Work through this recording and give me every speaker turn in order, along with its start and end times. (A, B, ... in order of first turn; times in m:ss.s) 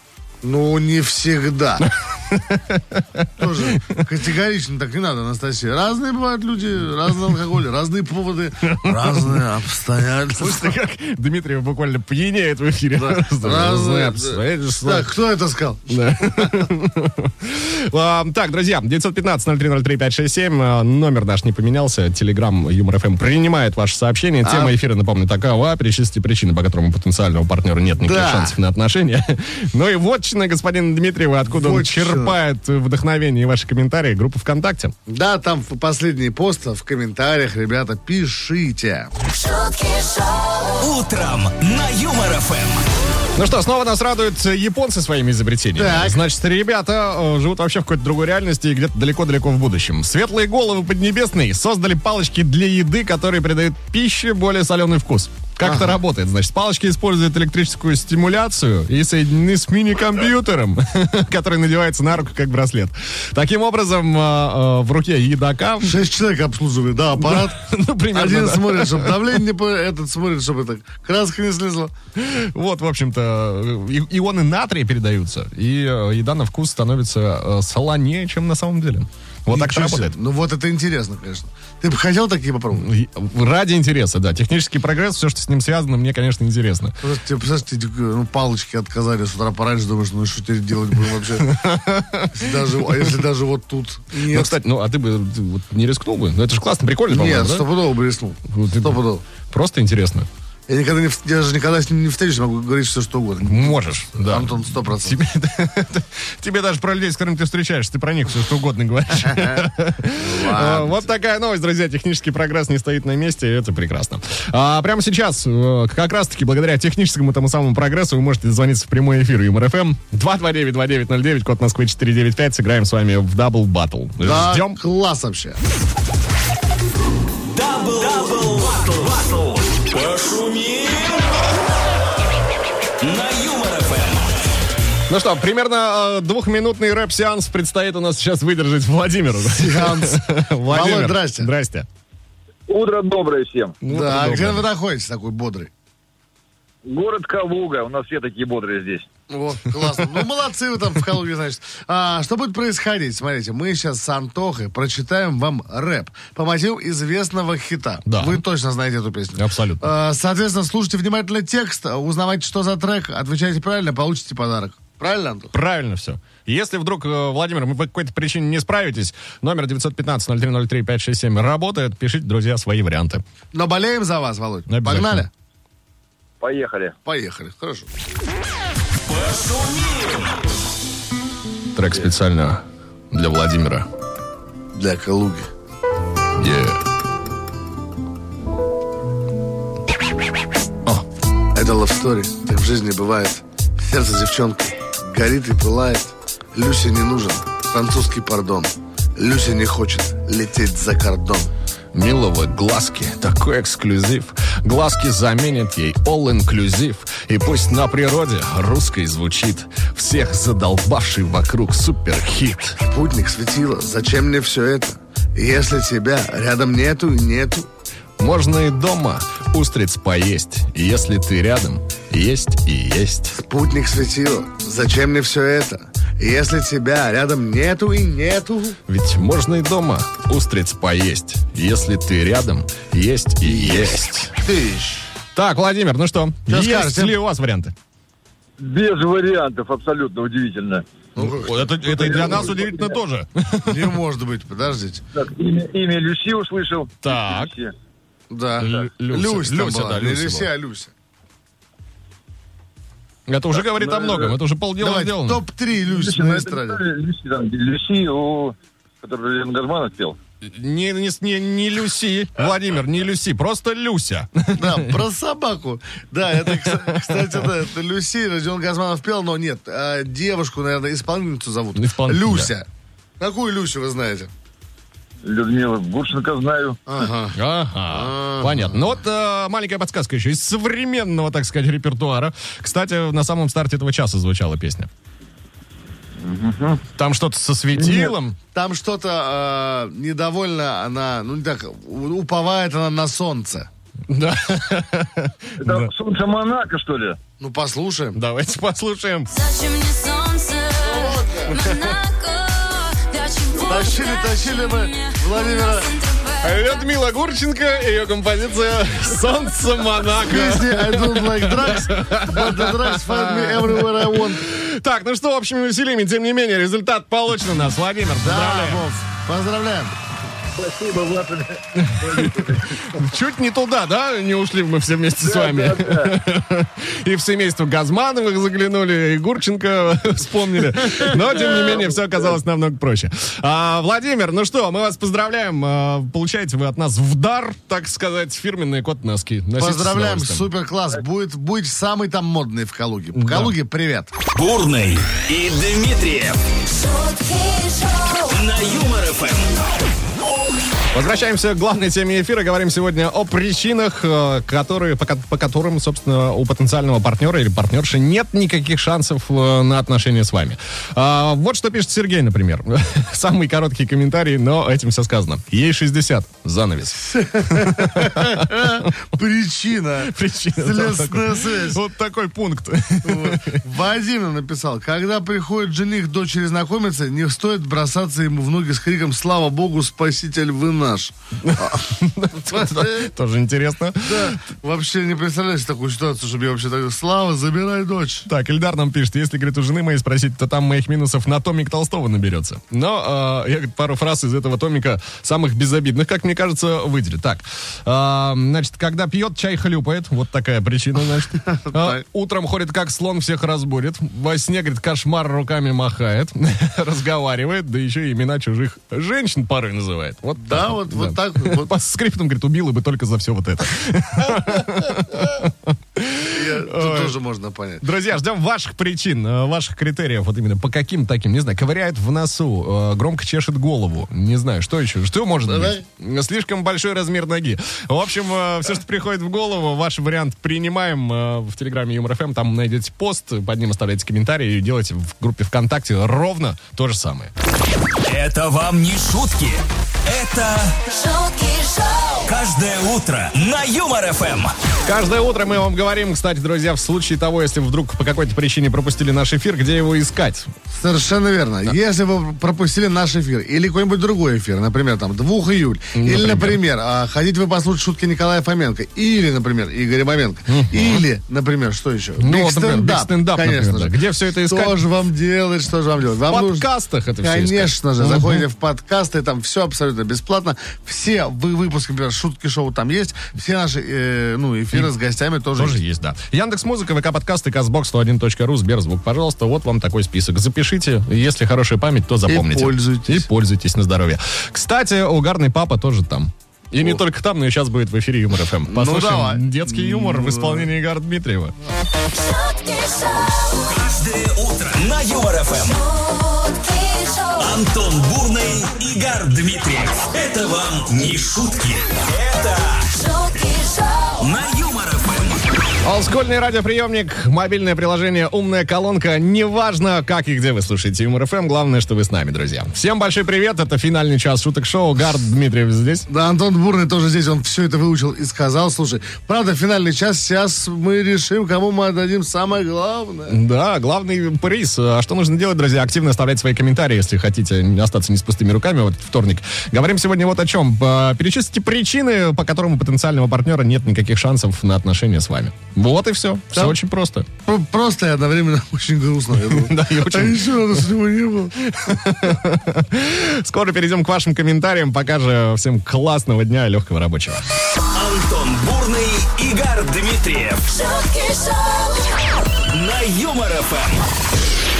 0:00.4-0:01.9 A
0:01.8-0:04.0 B
0:03.4-0:10.7 A
0:08.6-0:09.4 B
0:10.4-0:15.1 B
0:12.9-0:16.6 A
0:15.9-0:34.9 B
0:24.4-0:24.7 A
0:28.0-0:28.5 A
0:31.5-0:32.4 A
0:35.1-0:39.1 A
0:39.3-0:40.8 C
0:40.8-0:42.8 D
0:43.4-1:06.0 B
0:45.8-0:46.2 A
0:55.6-0:56.0 A
1:05.8-1:07.6 A
1:07.2-1:09.2 B
1:08.1-1:11.9 A
1:12.2-1:20.2 B
1:19.5-1:22.9 A
1:22.7-1:26.9 B
1:27.0-1:31.5 A
1:31.4-1:33.1 B
1:32.3-1:34.6 A
1:34.2-1:37.6 B
1:37.1-1:39.2 A
1:38.5-1:40.3 B
1:40.7-1:45.2 A
1:43.4-2:04.8 B
1:49.2-1:51.1 A
2:04.2-2:05.6 A
2:07.5-2:11.5 D
2:13.0-2:14.3 D
2:15.1-2:21.9 B
2:19.4-2:21.5 A
2:22.7-2:23.8 E
2:23.8-2:24.6 B
2:23.9-2:25.7 A
2:26.8-2:29.1 E
2:29.3-2:45.5 A
2:29.8-2:30.2 B
2:38.1-2:38.4 B
2:39.4-2:39.9 B
2:45.5-2:53.2 B
2:53.5-2:55.3 A
2:54.7-2:55.2 B
2:56.4-2:57.0 E
2:57.0-2:57.9 A
2:59.0-3:00.4 D
3:01.7-3:03.9 B
3:04.7-3:05.5 A
3:06.4-3:06.8 B
3:11.5-3:21.5 A
3:21.9-3:32.8 B
3:32.8-3:37.7 A
3:38.2-3:43.4 B
3:43.3-3:48.8 A
3:48.9-3:54.3 B
3:53.4-3:55.1 A
3:55.3-3:57.7 B
3:56.5-3:57.2 A
3:58.6-4:00.8 E
4:01.2-4:02.5 A
4:01.2-4:03.9 B
4:01.8-4:03.0 E
4:03.6-4:05.0 A
4:05.1-4:07.7 E
4:07.0-4:07.5 B
4:08.3-4:10.9 A
4:08.6-4:10.5 B
4:13.3-4:15.4 B
4:13.6-4:14.4 E
4:14.8-4:16.8 A
4:15.8-4:20.2 E
4:20.4-4:25.0 B
4:24.5-4:32.6 A
4:26.4-4:27.5 B
4:31.7-4:32.5 B
4:33.2-4:34.3 A
4:35.2-4:36.8 E
4:36.9-4:37.4 A
4:37.3-4:44.9 B
4:37.9-4:38.9 A
4:46.2-4:46.8 E
4:46.9-4:48.4 B
4:48.5-4:53.7 A
4:54.1-4:55.9 B
4:55.6-4:57.2 E
4:57.4-4:58.2 A
4:58.1-4:59.3 B
4:59.3-5:06.9 C
5:00.9-5:01.5 A
5:03.6-5:05.9 A
5:06.4-5:18.8 B
5:10.2-5:14.4 A
5:18.2-5:19.9 A
5:20.6-5:22.7 E
5:21.7-5:40.5 B
5:25.2-5:26.1 E
5:31.5-5:32.0 E
5:39.6-5:44.1 A
5:43.1-5:43.5 B
5:44.3-5:46.4 D
5:46.7-5:48.3 C
5:48.3-5:49.5 D
5:50.9-6:08.9 B
6:07.0-6:11.8 A
6:10.0-6:13.6 B
6:13.0-6:21.8 A
6:21.4-6:24.4 B
6:22.4-6:23.1 A
6:24.0-6:28.2 A
6:28.3-6:57.2 B
6:41.6-6:42.0 A
6:50.4-6:51.7 A
6:56.3-6:57.8 A
6:57.8-7:17.3 B
7:05.4-7:05.8 A
7:18.0-7:20.8 D
7:20.9-7:22.2 C
7:22.2-7:24.5 D
7:24.8-7:30.5 B
7:30.7-7:46.7 A
7:35.9-7:36.6 B
7:40.5-7:41.0 B
7:42.2-7:44.7 B
7:46.3-7:48.4 B
7:47.2-7:55.8 A
7:55.6-8:11.5 B
8:02.3-8:03.3 A
8:08.7-8:10.7 A
8:12.1-8:13.6 C
8:13.6-8:15.8 D
8:15.7-8:17.5 C
8:17.4-8:22.9 D
8:22.9-8:24.2 C
8:24.2-8:25.4 D
8:25.8-8:36.0 B
8:36.1-8:43.4 A
8:43.3-8:57.3 B
8:57.4-9:01.6 A
8:59.4-9:00.8 B
9:01.6-9:07.4 B
9:07.9-9:10.7 D
9:10.7-9:12.0 C
9:12.7-9:14.1 D